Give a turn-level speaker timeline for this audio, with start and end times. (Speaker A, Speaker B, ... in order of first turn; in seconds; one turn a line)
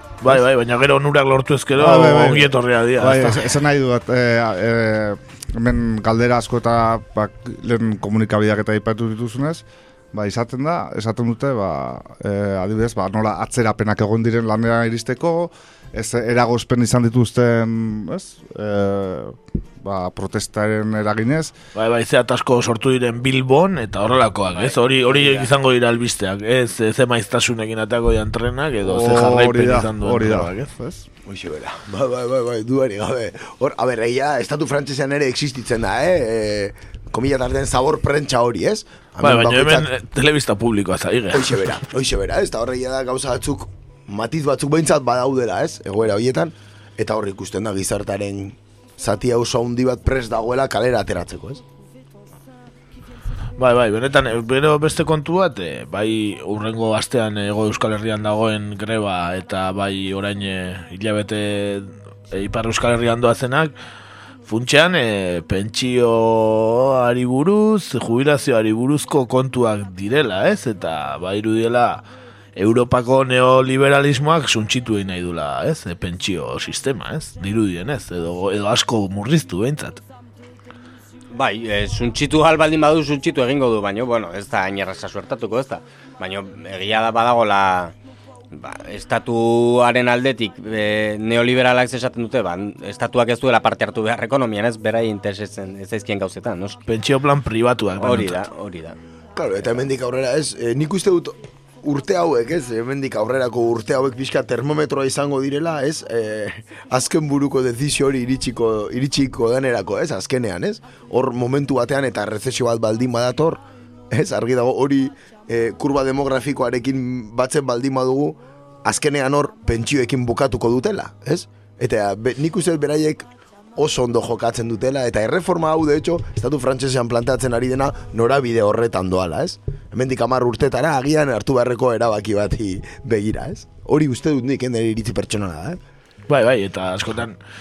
Speaker A: 0.2-3.4
Speaker B: 1.8-21.5
Speaker A: 21.7-30.7
Speaker C: 25.1-25.4
Speaker B: 28.8-31.1
Speaker C: 31.2-39.9
Speaker A: 39.2-41.7
Speaker C: 41.3-51.6
Speaker A: 53.6-63.7
Speaker A: 64.4-72.0
Speaker A: 72.5-80.0
Speaker D: 81.3-87.9
Speaker D: 88.5-96.8
Speaker A: 96.9-98.4
Speaker D: 98.0-99.0
Speaker C: 99.3-113.6
Speaker C: 114.1-135.8
Speaker A: 136.3-137.4